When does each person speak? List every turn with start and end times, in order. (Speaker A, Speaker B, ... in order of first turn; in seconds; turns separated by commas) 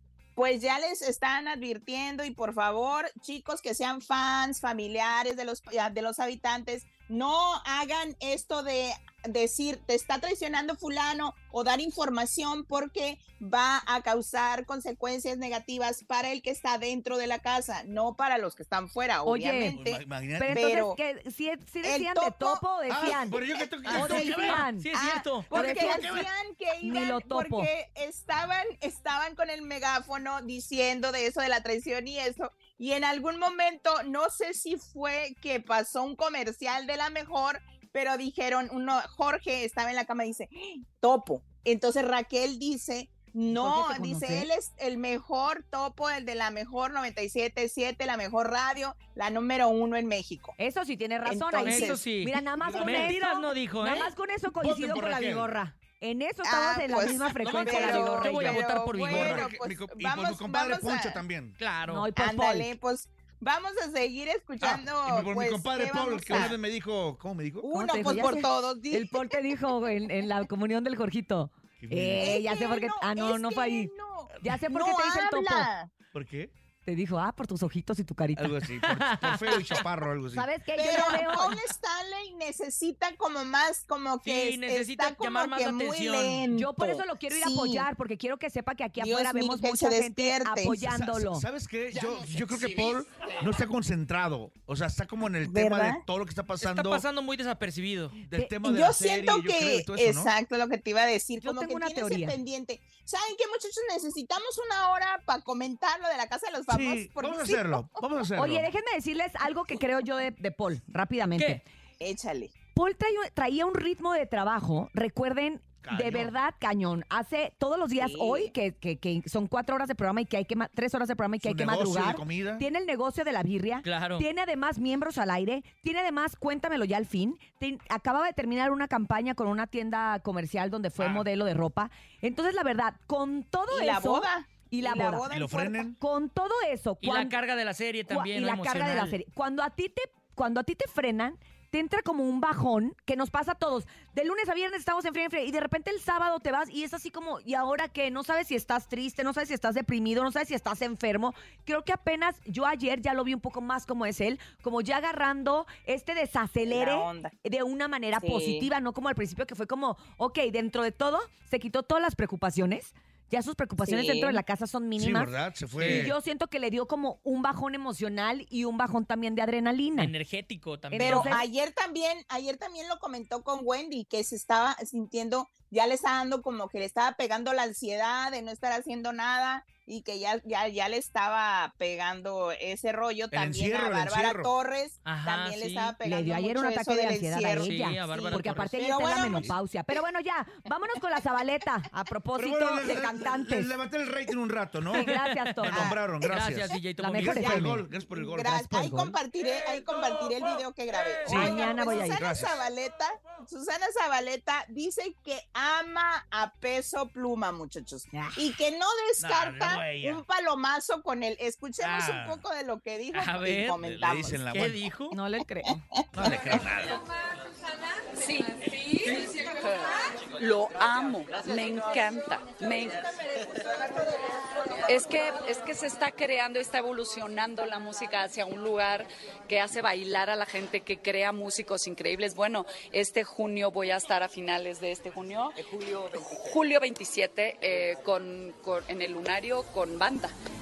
Speaker A: 0.4-21.0, Speaker B: 19.2-19.8, Speaker C: 19.7-20.7, Speaker B: 20.4-24.9, Speaker A: 21.8-22.7, Speaker C: 22.9-24.6, Speaker D: 23.9-25.8, Speaker A: 24.9-50.5, Speaker B: 25.5-26.2, Speaker C: 25.8-26.3, Speaker B: 26.8-27.7, Speaker B: 43.5-44.5, Speaker B: 50.6-58.6, Speaker A: 51.3-52.0, Speaker D: 51.6-54.1, Speaker C: 52.6-53.2, Speaker C: 54.6-55.5, Speaker A: 56.4-61.2, Speaker D: 57.4-59.5, Speaker C: 59.0-61.6, Speaker D: 61.6-62.1, Speaker B: 61.9-62.7, Speaker A: 62.1-66.6, Speaker C: 64.6-67.7, Speaker A: 67.6-69.3, Speaker B: 67.7-73.9, Speaker C: 71.8-72.4, Speaker A: 72.2-75.9, Speaker B: 74.4-75.7, Speaker C: 76.1-76.5, Speaker B: 76.9-78.6, Speaker C: 78.4-80.5, Speaker D: 78.9-79.8, Speaker B: 80.3-81.6, Speaker A: 80.7-87.9, Speaker D: 84.2-86.5, Speaker B: 86.5-91.5, Speaker A: 89.0-90.8, Speaker C: 90.7-97.0, Speaker A: 95.4-96.0, Speaker D: 96.6-98.2, Speaker C: 98.2-100.3, Speaker A: 98.6-107.8, Speaker B: 101.4-102.4, Speaker C: 106.7-108.7, Speaker B: 108.4-111.6, Speaker A: 112.0-112.5, Speaker B: 112.8-135.3, Speaker C: 115.8-116.3, Speaker A: 118.0-118.5, Speaker C: 121.4-122.7, Speaker D: 123.8-124.2, Speaker A: 133.7-135.8, Speaker C: 135.3-136.0, Speaker B: 136.0-137.3, Speaker D: 137.0-139.2, Speaker B: 138.1-170.1, Speaker A: 156.7-157.3, Speaker A: 158.2-158.7, Speaker A: 163.8-164.4, Speaker C: 165.0-166.2, Speaker D: 165.8-166.1, Speaker D: 170.0-171.5, Speaker B: 170.9-171.4, Speaker A: 171.0-189.5, Speaker C: 183.3-184.5, Speaker D: 185.1-186.0, Speaker B: 186.1-193.7, Speaker D: 187.6-188.8, Speaker C: 189.2-189.5, Speaker C: 192.4-198.6, Speaker B: 194.9-195.9, Speaker D: 195.1-197.6, Speaker B: 197.0-197.8, Speaker A: 198.1-214.4, Speaker B: 198.4-199.2, Speaker C: 201.2-202.6, Speaker B: 201.3-202.3, Speaker B: 208.1-208.4, Speaker C: 209.2-210.2, Speaker C: 211.8-212.4, Speaker D: 213.1-213.8, Speaker C: 213.8-214.8, Speaker D: 214.5-215.1, Speaker B: 215.1-215.8, Speaker A: 216.0-216.3, Speaker C: 216.2-217.0, Speaker E: 218.2-223.1, Speaker E: 224.8-240.3